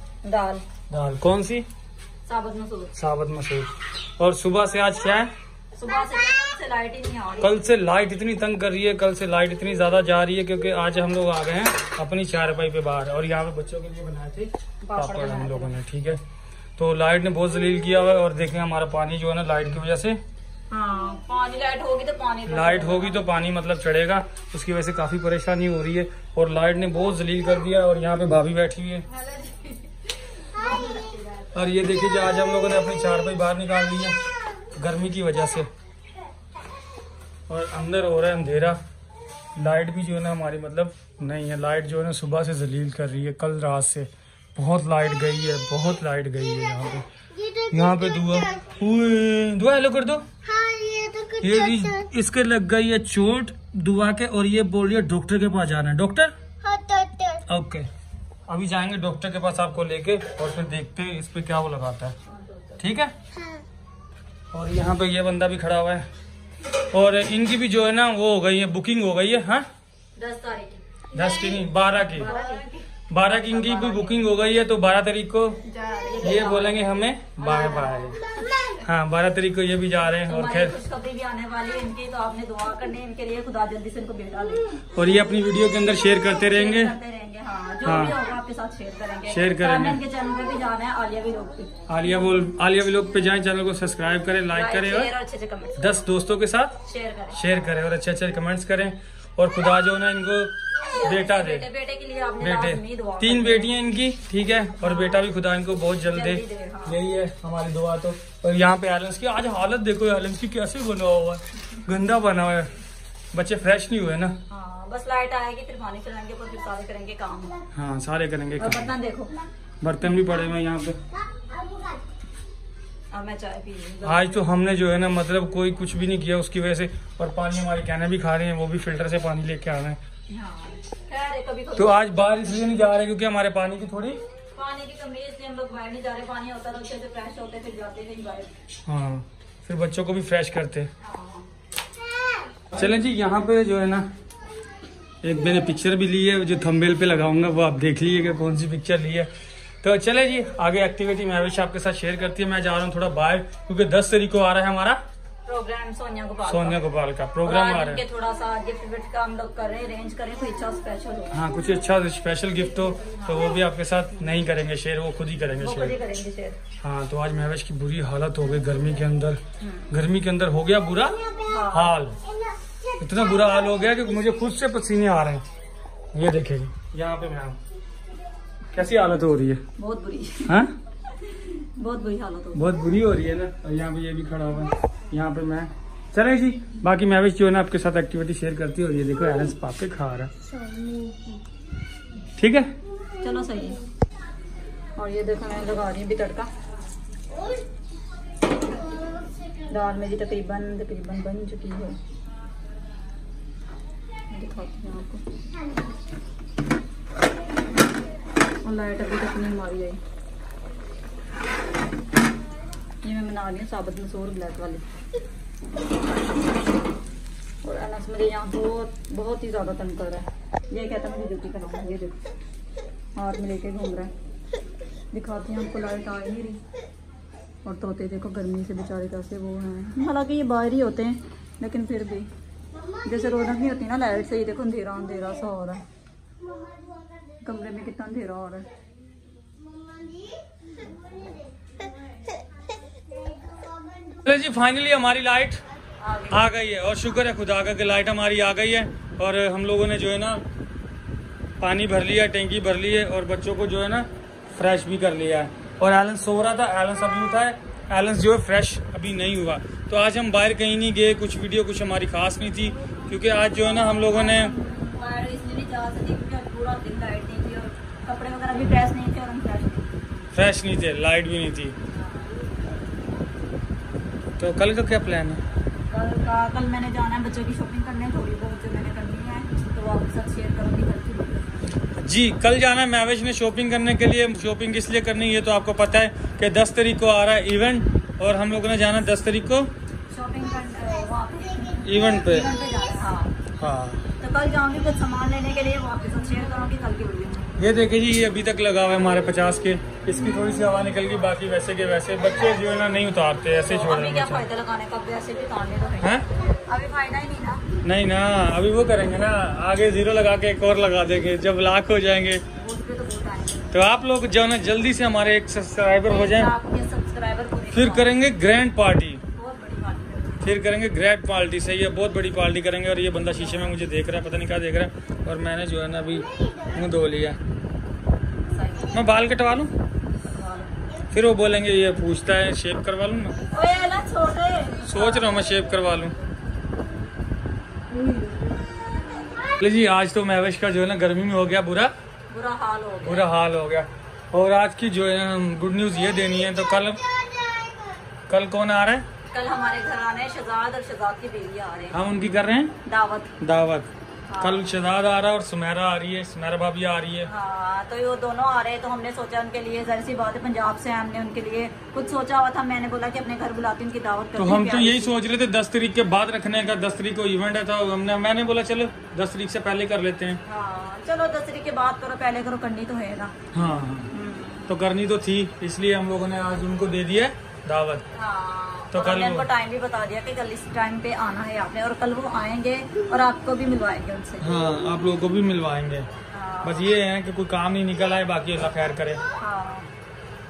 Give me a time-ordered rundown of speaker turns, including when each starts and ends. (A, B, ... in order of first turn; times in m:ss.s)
0:00.2-0:00.6 A
0:00.9-0:01.6 B
0:02.2-0:02.9 A
0:03.0-0:05.3 B
0:05.7-0:07.6 A
0:07.4-0:16.2 B
0:14.8-0:15.8 A
0:16.8-0:20.2 B
0:20.7-0:23.2 A
0:22.5-0:29.0 B
0:29.1-0:31.6 A
0:31.5-0:35.7 B
0:37.5-0:38.8 B
0:39.6-0:47.0 B
0:47.7-0:50.2 B
0:50.5-0:51.7 C
0:51.4-0:56.3 B
0:56.6-0:57.4 C
0:57.4-0:57.8 B
0:58.5-1:02.1 B
1:02.3-1:02.8 A
1:02.8-1:03.1 B
1:04.5-1:06.0 B
1:06.8-1:09.6 B
1:10.2-1:14.2 A
1:11.1-1:12.3 B
1:13.1-1:15.6 B
1:15.6-1:16.8 A
1:16.2-1:18.2 B
1:17.4-1:18.7 A
1:18.8-1:20.7 B
1:20.2-1:24.8 A
1:24.9-1:26.9 B
1:26.4-1:31.8 A
1:27.8-1:28.2 B
1:29.3-1:30.0 B
1:31.9-1:35.1 B
1:34.5-1:35.8 A
1:35.8-1:36.8 B
1:36.8-1:37.5 A
1:37.3-1:41.6 B
1:40.8-1:43.7 A
1:42.4-1:52.7 B
1:44.8-1:45.2 A
1:46.1-1:47.0 A
1:53.3-1:54.3 B
1:54.5-1:57.6 A
1:57.7-1:58.9 B
1:58.6-1:59.4 A
1:59.8-2:01.0 B
2:03.1-2:04.4 A
2:04.0-2:10.0 B
2:10.3-2:12.6 A
2:11.8-2:14.2 B
2:14.5-2:18.5 A
2:18.8-2:20.9 B
2:21.0-2:21.5 A
2:22.7-2:24.0 B
2:25.2-2:29.3 B
2:29.8-2:35.0 B
2:35.4-2:36.8 A
2:36.4-2:38.0 B
2:37.4-2:41.4 A
2:41.3-2:46.0 B
2:45.6-2:46.6 A
2:46.8-2:49.4 B
2:49.6-2:49.9 A
2:49.9-2:52.2 B
2:51.4-2:52.0 A
2:53.0-2:55.4 B
2:56.1-2:57.6 B
2:58.7-2:59.6 B
2:59.8-3:00.6 A
3:00.5-3:00.7 B
3:01.1-3:02.7 A
3:02.5-3:10.3 B
3:12.4-3:12.7 B
3:13.2-3:13.8 A
3:15.0-3:16.5 A
3:19.7-3:22.0 A
3:24.3-3:25.2 A
3:28.6-3:30.0 A
3:33.0-3:34.8 A
3:37.6-3:42.1 A
3:43.2-3:44.1 A
3:45.1-3:46.6 A
3:47.6-3:52.3 A
3:53.0-3:55.8 A
3:57.4-3:58.6 A
3:59.9-4:00.4 C
4:04.2-4:05.6 B
4:06.0-4:06.5 A
4:06.3-4:10.4 B
4:11.6-4:24.5 B
4:23.5-4:29.9 A
4:30.3-4:31.7 B
4:31.9-4:32.4 A
4:34.4-4:35.4 B
4:35.9-4:41.7 A
4:42.0-4:49.7 B
4:50.1-4:53.4 A
4:51.8-4:52.5 B
4:53.6-4:54.0 B
4:54.2-4:57.5 A
4:57.6-5:04.4 B
5:03.6-5:07.6 A
5:06.0-5:06.2 B
5:07.8-5:12.4 B
5:12.6-5:13.7 A
5:13.7-5:16.5 B
5:16.1-5:18.1 A
5:17.7-5:19.2 B
5:19.3-5:20.5 A
5:20.4-5:27.4 B
5:23.3-5:23.7 A
5:28.5-5:29.0 A
5:28.9-5:29.7 B
5:30.2-5:30.8 A
5:31.1-5:33.4 B
5:33.5-5:35.5 A
5:34.9-5:36.1 B
5:37.9-5:38.5 A
5:39.5-5:41.9 B
5:42.3-5:43.3 A
5:43.0-5:47.0 B
5:48.3-5:49.0 B
5:49.3-5:52.0 A
5:51.9-5:52.7 B
5:52.8-5:53.3 A
5:53.4-5:57.3 B
5:54.3-5:54.7 A
5:57.2-6:05.2 A
6:04.4-6:10.4 B
6:10.4-6:13.3 A
6:13.5-6:14.1 B
6:14.1-6:14.7 A
6:14.7-6:18.0 B
6:18.1-6:24.6 A
6:18.9-6:19.4 B
6:24.4-6:26.1 B
6:26.3-6:26.8 A
6:26.6-6:29.2 B
6:29.4-6:29.9 A